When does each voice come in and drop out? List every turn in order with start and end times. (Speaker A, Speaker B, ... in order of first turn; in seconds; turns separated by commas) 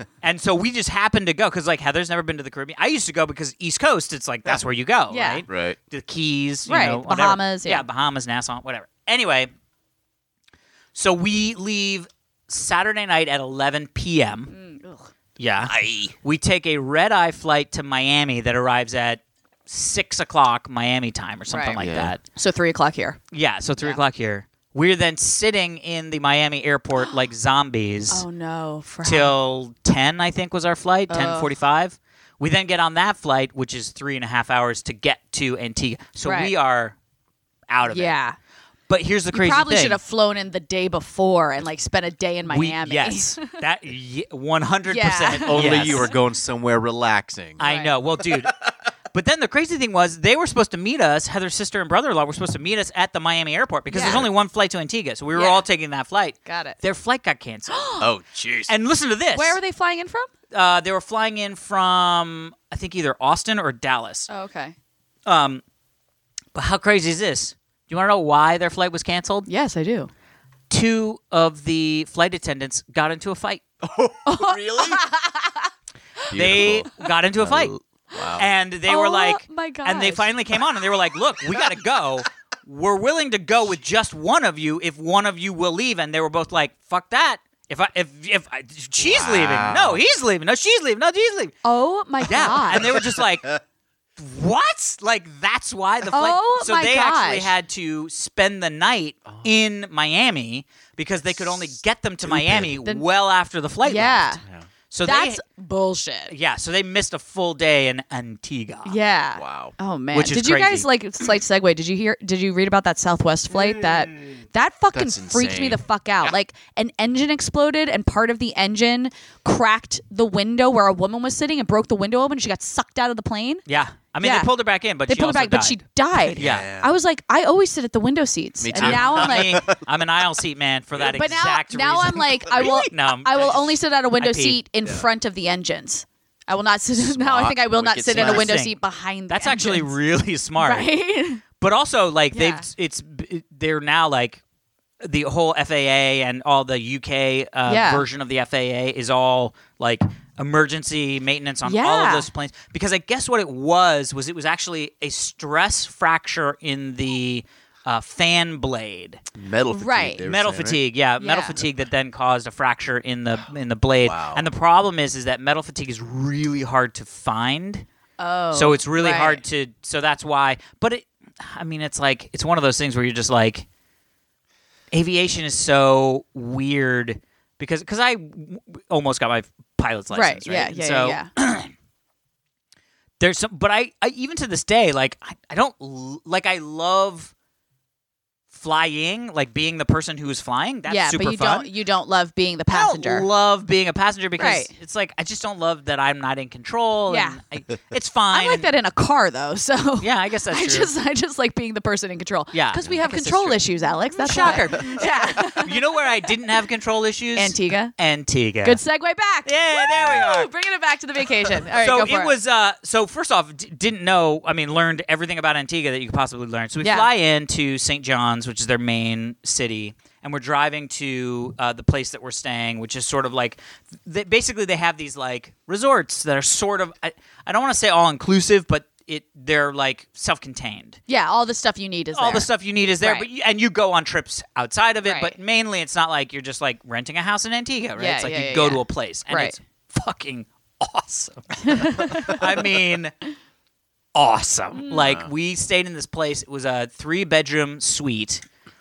Speaker A: 0.2-9.5, Speaker B: 5.1-5.4, Speaker C: 5.5-5.8, Speaker B: 6.7-7.8, Speaker A: 10.9-14.5, Speaker B: 14.5-15.1, Speaker A: 15.4-22.2, Speaker C: 15.7-16.1, Speaker B: 21.5-21.8, Speaker C: 21.7-22.1, Speaker B: 22.3-23.2, Speaker A: 23.3-28.2, Speaker B: 28.1-29.3, Speaker A: 29.0-37.0, Speaker B: 31.1-31.5, Speaker B: 36.2-36.5, Speaker A: 37.7-38.1, Speaker B: 37.9-38.4, Speaker A: 38.9-40.0, Speaker B: 39.3-43.5, Speaker A: 42.5-46.1, Speaker B: 44.9-46.1, Speaker C: 45.5-47.6, Speaker B: 47.6-47.9, Speaker A: 47.6-58.0, Speaker C: 48.2-48.5, Speaker B: 53.9-54.2, Speaker B: 55.3-55.6, Speaker B: 56.5-56.8, Speaker B: 57.7-58.1, Speaker C: 58.0-58.7, Speaker A: 58.7-59.6, Speaker B: 59.3-60.3, Speaker A: 60.5-64.3, Speaker B: 64.3-64.7, Speaker A: 65.2-65.6, Speaker A: 66.5-69.5, Speaker B: 69.5-70.1, Speaker A: 70.7-73.6, Speaker C: 73.8-75.0, Speaker B: 74.2-75.7, Speaker C: 76.3-78.5, Speaker A: 76.3-77.7, Speaker A: 78.3-91.5, Speaker B: 78.9-80.3, Speaker C: 89.0-90.0, Speaker B: 91.6-92.8, Speaker A: 92.2-93.5, Speaker C: 92.7-93.6, Speaker A: 94.2-104.3, Speaker B: 96.1-97.5, Speaker C: 101.4-101.7, Speaker C: 102.2-102.8, Speaker B: 103.8-104.4, Speaker A: 104.9-105.4, Speaker B: 105.0-106.3, Speaker A: 106.3-109.0, Speaker B: 108.8-123.7, Speaker C: 109.3-109.7, Speaker A: 110.1-110.9, Speaker C: 114.9-115.8, Speaker A: 123.7-126.7, Speaker B: 124.2-124.5, Speaker B: 125.0-129.7, Speaker C: 126.4-127.0, Speaker C: 128.6-129.8, Speaker A: 128.7-134.6, Speaker B: 131.1-139.9, Speaker C: 132.5-132.8, Speaker C: 136.9-138.6, Speaker A: 138.1-138.8, Speaker A: 139.3-140.9, Speaker B: 140.6-141.4, Speaker A: 141.6-144.4, Speaker B: 142.3-142.7, Speaker A: 145.0-159.2, Speaker B: 147.7-148.0, Speaker B: 151.6-152.3, Speaker C: 159.3-160.8, Speaker B: 159.7-160.2, Speaker A: 160.2-167.8, Speaker B: 161.2-161.6, Speaker C: 164.0-164.5, Speaker B: 168.2-169.4, Speaker A: 168.5-173.7, Speaker A: 174.9-181.7, Speaker B: 180.1-181.3, Speaker A: 183.2-187.3, Speaker A: 188.5-191.7, Speaker B: 190.9-193.3, Speaker A: 192.7-198.7, Speaker B: 194.4-194.7, Speaker B: 197.1-197.4, Speaker B: 198.3-205.8, Speaker A: 200.0-200.9, Speaker A: 202.5-208.8, Speaker B: 207.3-207.9, Speaker B: 208.6-212.3, Speaker A: 209.4-210.5, Speaker A: 211.8-231.0, Speaker B: 216.8-217.1, Speaker B: 231.1-233.2, Speaker A: 232.1-243.2, Speaker B: 235.0-235.3, Speaker B: 238.0-239.5, Speaker B: 241.6-242.6, Speaker A: 244.1-248.4, Speaker C: 244.9-245.3